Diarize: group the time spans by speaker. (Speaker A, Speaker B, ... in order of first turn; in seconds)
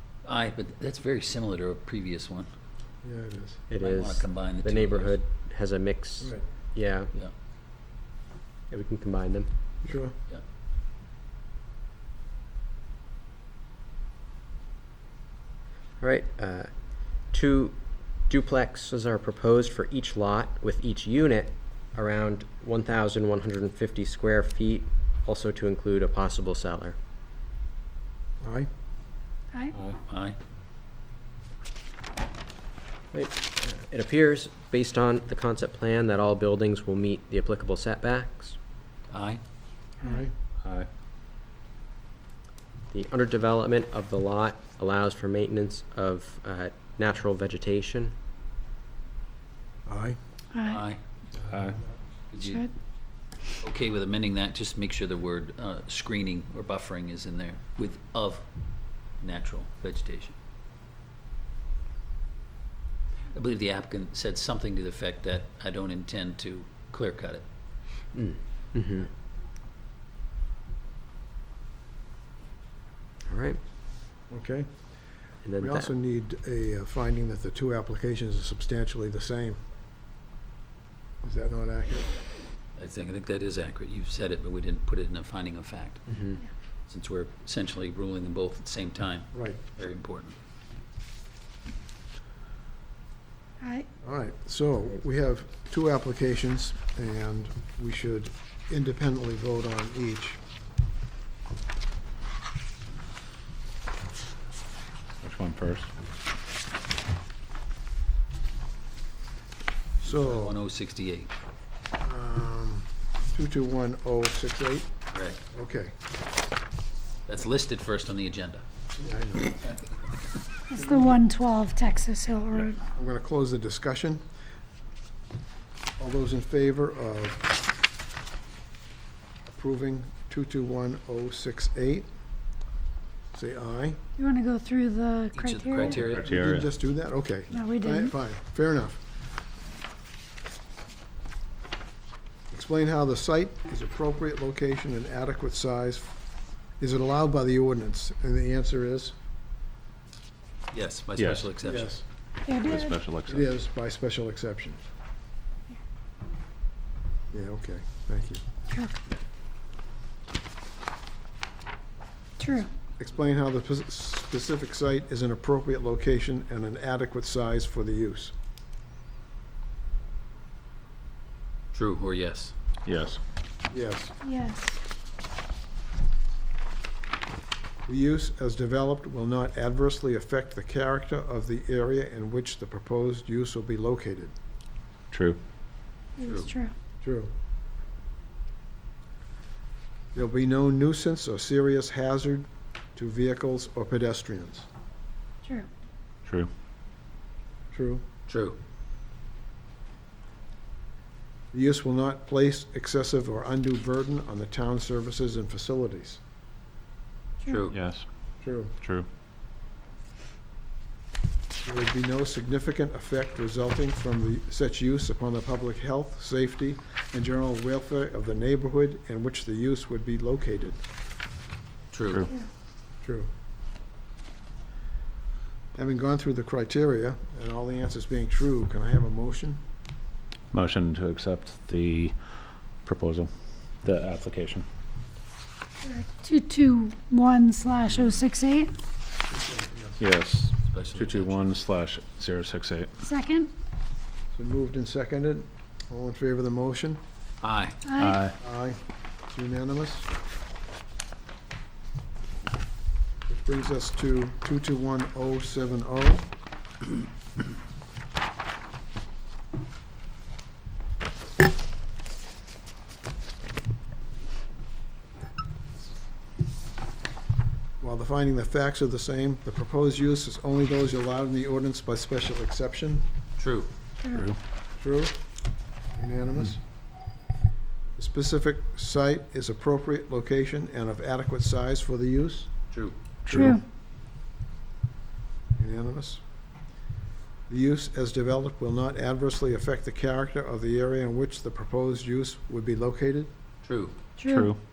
Speaker A: 0.2-2.5, 3.8-5.2, 30.1-30.4, 39.1-39.4, 50.6-51.0, 52.3-52.6, 53.6-58.5, 59.2-60.3, 63.3-67.5, 82.8-86.0, 86.9-90.4, 110.0-111.3, 115.1-115.4, 117.3-118.6, 135.3-136.3, 150.7-151.9, 171.7-172.5, 186.2-186.5, 198.3-198.6, 207.5-207.7, 221.9-222.2, 240.6-241.4, 247.4-247.8, 273.4-273.7, 282.7-282.9, 293.6-293.9
Speaker B: 3.0-3.6, 9.8-10.1, 28.4-28.7, 40.0-40.3, 49.9-50.2, 74.3-74.7, 75.6-79.6, 81.2-82.1, 89.3-89.6, 94.0-100.4, 110.0-110.5, 112.0-114.9, 115.5-115.9, 119.0-119.7, 120.8-121.2, 122.7-124.2, 126.0-127.5, 129.5-132.1, 133.3-134.0, 136.0-139.0, 142.5-146.1, 146.8-149.2, 151.6-152.0, 153.3-154.8, 157.3-158.4, 163.0-168.3, 173.7-174.1, 177.9-184.3, 187.0-187.3, 190.1-194.7, 197.7-198.0, 201.5-206.2, 208.4-208.7, 211.6-220.8, 223.0-223.3, 225.8-229.6, 239.3-240.0, 244.3-247.0, 248.4-248.8, 249.3-250.1, 253.3-256.3, 267.8-273.0, 274.8-275.1, 276.0-276.6, 278.0-282.5, 285.6-286.2, 287.5-293.3
Speaker C: 3.7-7.1, 8.7-9.5, 16.0-16.7, 17.3-17.8, 18.3-26.9, 33.1-38.5, 42.9-48.1, 68.1-69.1, 73.3-73.6, 75.4-75.9, 86.1-86.4
Speaker D: 50.5-50.8, 52.4-52.7, 93.6-93.9, 120.7-122.8, 134.2-136.0, 137.5-138.1, 152.4-153.0, 158.7-159.0, 162.4-162.7, 174.2-174.8, 186.2-186.7, 235.8-238.8, 243.0-243.5, 247.8-248.2, 274.0-274.3, 283.3-283.6, 294.2-294.5
Speaker E: 51.5-51.8, 105.2-105.9, 135.8-136.7, 151.1-151.5, 152.5-153.5, 172.9-173.2, 185.1-185.4, 207.7-208.1, 208.8-209.1, 230.5-232.2, 232.8-233.3, 233.8-234.7, 240.0-242.9, 248.0-248.3, 274.1-274.4, 283.3-283.6, 294.2-294.6